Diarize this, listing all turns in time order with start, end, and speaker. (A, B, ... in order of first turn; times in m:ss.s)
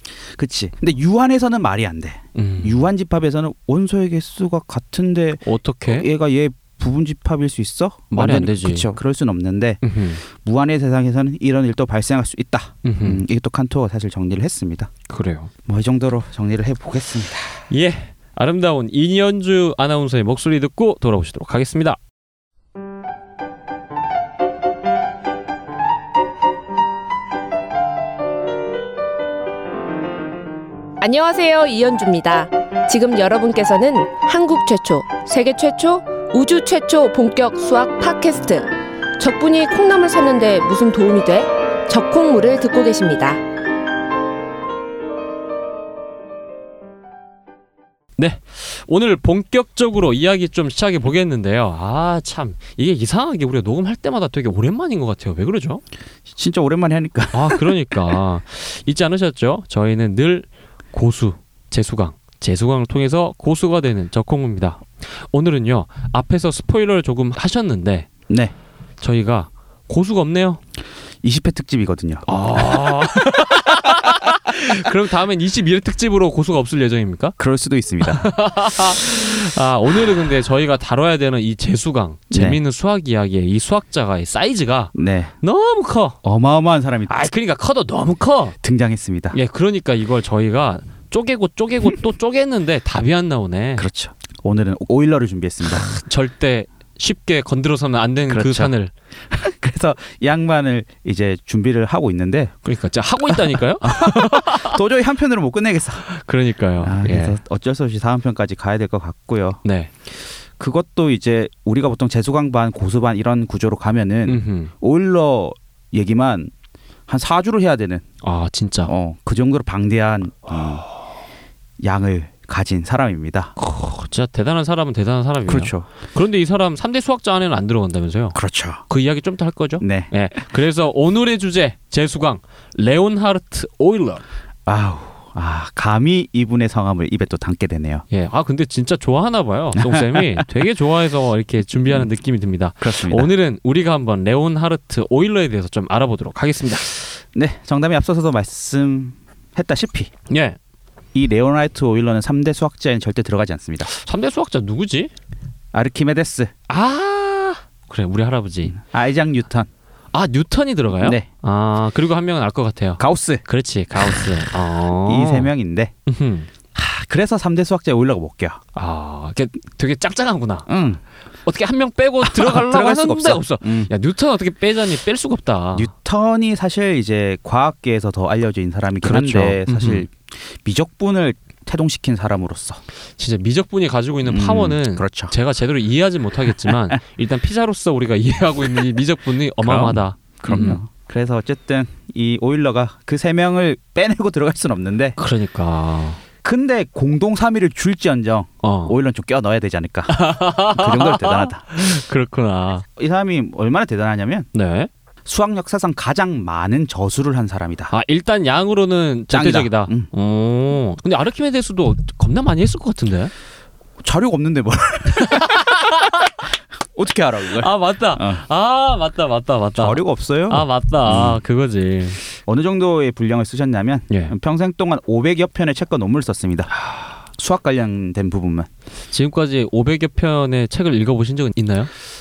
0:00.4-0:14.9 A
0:02.4-0:02.8 B
0:05.4-0:06.1 B
0:08.1-0:09.0 B
0:09.8-0:10.2 B
0:12.8-0:13.2 B
0:15.1-0:15.5 B
0:15.7-0:17.6 A
0:17.7-0:22.0 B
0:31.0-0:38.7 C
0:39.2-0:43.4 C
0:48.2-0:55.8 B
0:56.3-0:57.7 A
0:57.3-1:08.1 B
1:08.3-1:08.5 A
1:09.0-1:10.6 B
1:11.2-1:12.2 A
1:12.3-1:17.4 B
1:17.4-1:18.3 A
1:18.0-1:26.2 B
1:22.3-1:22.6 A
1:25.0-1:25.3 A
1:26.2-1:27.2 A
1:27.1-1:28.6 B
1:28.6-1:29.4 A
1:29.3-1:33.9 B
1:33.8-1:35.9 A
1:35.8-1:38.9 B
1:38.3-1:38.7 A
1:39.3-1:42.5 A
1:42.6-1:44.8 B
1:43.3-1:46.0 A
1:46.0-1:47.4 B
1:46.8-1:49.6 A
1:49.6-1:49.9 B
1:50.6-1:56.5 A
1:54.3-1:54.7 B
1:57.1-1:58.0 A
1:58.2-1:58.9 B
1:58.9-2:00.8 A
2:01.8-2:03.5 A
2:03.6-2:08.4 B
2:05.5-2:05.9 A
2:08.3-2:08.8 A
2:08.9-2:14.2 B
2:09.8-2:10.1 A
2:14.7-2:18.0 A
2:18.1-2:26.9 B
2:19.8-2:20.5 A
2:22.8-2:23.3 A
2:27.3-2:30.1 A
2:30.3-2:30.6 B
2:31.1-2:33.9 A
2:33.9-2:35.1 B
2:35.7-2:36.5 A
2:36.7-2:38.8 B
2:38.8-2:39.7 A
2:40.1-2:45.5 B
2:41.0-2:41.3 A
2:43.0-2:43.4 A
2:45.0-2:46.0 A
2:46.1-2:46.5 B
2:46.7-2:48.6 A
2:48.7-2:50.7 B
2:50.7-2:51.0 A
2:51.4-2:55.9 B
2:52.2-2:53.9 A
2:55.7-3:02.8 A
2:59.0-3:00.1 B
3:03.2-3:10.8 B
3:04.2-3:05.3 A
3:06.6-3:07.0 A
3:09.6-3:15.2 A
3:15.2-3:16.2 B
3:16.4-3:21.7 A
3:18.6-3:19.0 B
3:20.1-3:22.8 B
3:22.9-3:24.5 A
3:24.5-3:24.9 B
3:25.2-3:27.9 A
3:27.9-3:33.3 B
3:29.3-3:30.1 A
3:34.0-3:35.8 A
3:35.2-3:36.3 B
3:36.9-3:38.4 A
3:37.6-3:42.2 B
3:39.8-3:41.4 A
3:42.4-3:46.7 A
3:44.1-3:44.4 B
3:46.8-3:47.1 B
3:47.4-3:48.7 A
3:49.1-3:51.9 B